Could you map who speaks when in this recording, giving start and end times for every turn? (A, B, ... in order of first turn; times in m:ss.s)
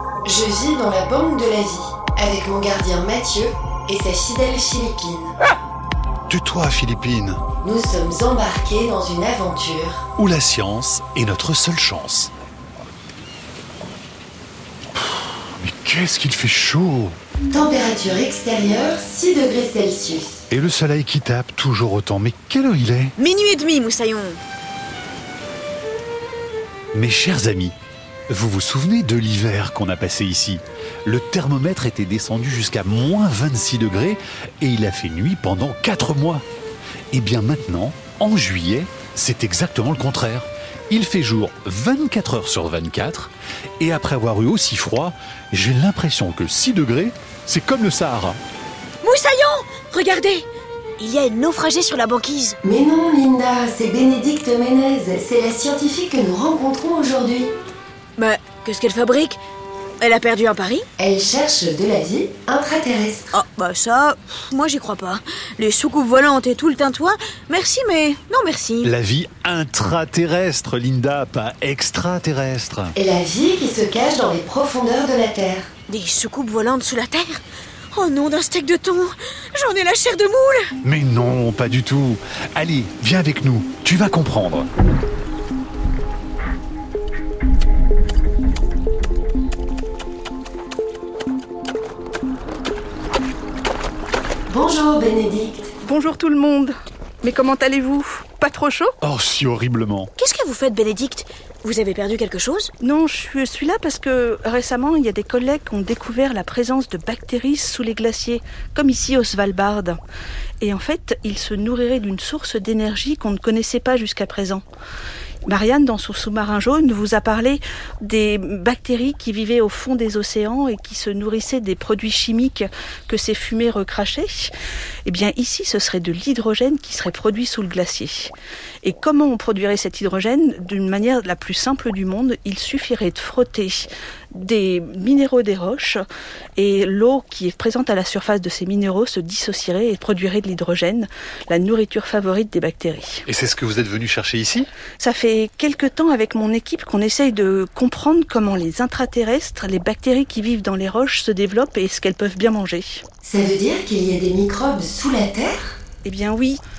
0:00.2-0:05.3 A
0:06.3-0:07.4 B
0:07.6-0:10.0 A
0:10.2-0:12.3 B
0:14.9-0:17.2 B
0:17.5-0:20.4 A
0:20.5-0:23.1 B
0:23.2-0:24.4 C
0:26.9-0:27.7 B
0:28.3-0:36.4 B
0:37.1-0:48.4 B
0:49.0-0:50.4 C
0:51.0-0:52.6 C
0:52.6-0:57.5 A
0:58.2-0:59.4 C
1:00.0-1:00.8 C
1:01.0-1:03.3 A
1:03.3-1:08.9 C
1:08.8-1:12.9 B
1:13.0-1:15.7 A
1:15.9-1:20.7 C
1:20.8-1:24.7 B
1:34.5-1:35.7 A
1:35.8-1:38.9 D
1:39.0-1:40.1 B
1:40.2-1:42.7 C
1:42.8-1:50.0 D
1:50.6-1:54.6 D
1:55.4-2:04.5 D
2:05.0-2:16.0 D
2:16.6-2:23.2 D
2:23.3-2:24.7 B
2:25.0-2:33.0 D
2:33.2-2:35.8 A
2:36.0-2:36.6 D